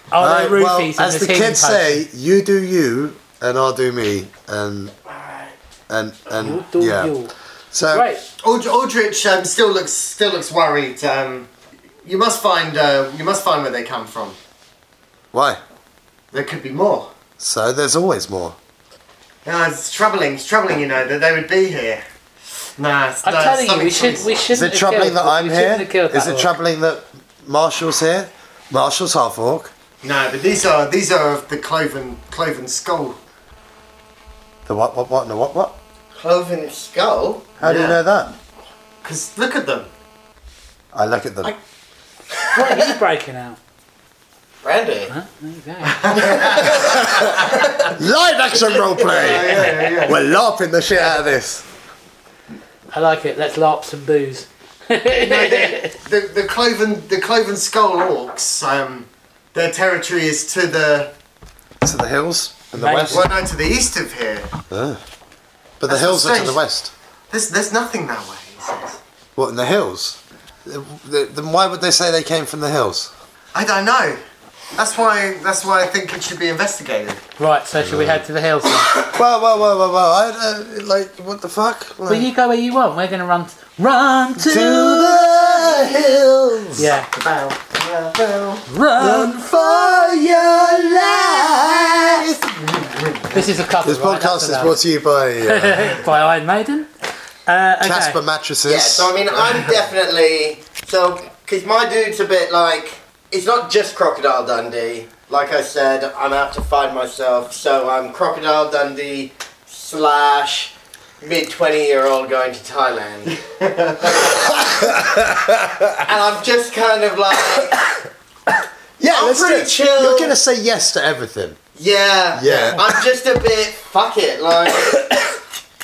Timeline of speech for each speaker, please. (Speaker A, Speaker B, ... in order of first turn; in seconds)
Speaker A: 0.1-2.0, 6.3-7.3, 7.9-8.2, 23.2-26.5, 42.5-43.6, 45.1-46.4, 49.5-49.9, 52.9-55.9, 62.7-63.3, 77.4-79.0, 82.1-84.8, 86.8-87.1, 88.7-89.5, 93.3-94.8, 95.4-96.9, 97.5-98.2
Speaker B: 0.2-4.9, 5.9-7.1, 7.7-8.1, 15.3-15.6, 17.4-18.6, 24.5-29.7, 34.6-35.8, 37.6-38.3, 40.9-41.5, 46.6-51.6, 61.8-63.3, 64.7-65.0, 65.8-66.9, 69.3-73.1, 77.8-78.2, 78.9-82.3, 84.4-86.9, 88.9-92.2, 93.8-96.0, 97.8-99.4, 114.3-116.0, 119.0-121.6, 122.3-123.0
Speaker C: 5.1-5.5, 36.1-37.5, 44.6-45.1, 46.3-47.9, 48.7-49.4, 98.6-113.3, 116.0-117.8, 119.1-120.3, 121.8-125.0
Speaker D: 8.4-11.5, 12.0-14.4, 16.3-17.1, 19.4-22.0, 22.8-24.4, 30.0-33.2, 37.6-38.0, 39.0-39.9, 45.9-47.9, 49.1-50.2, 55.1-61.1, 63.1-64.5, 65.9-66.6, 67.3-69.0, 73.5-74.2, 74.8-77.2, 84.8-86.1, 86.8-88.7, 91.0-93.5, 113.3-114.3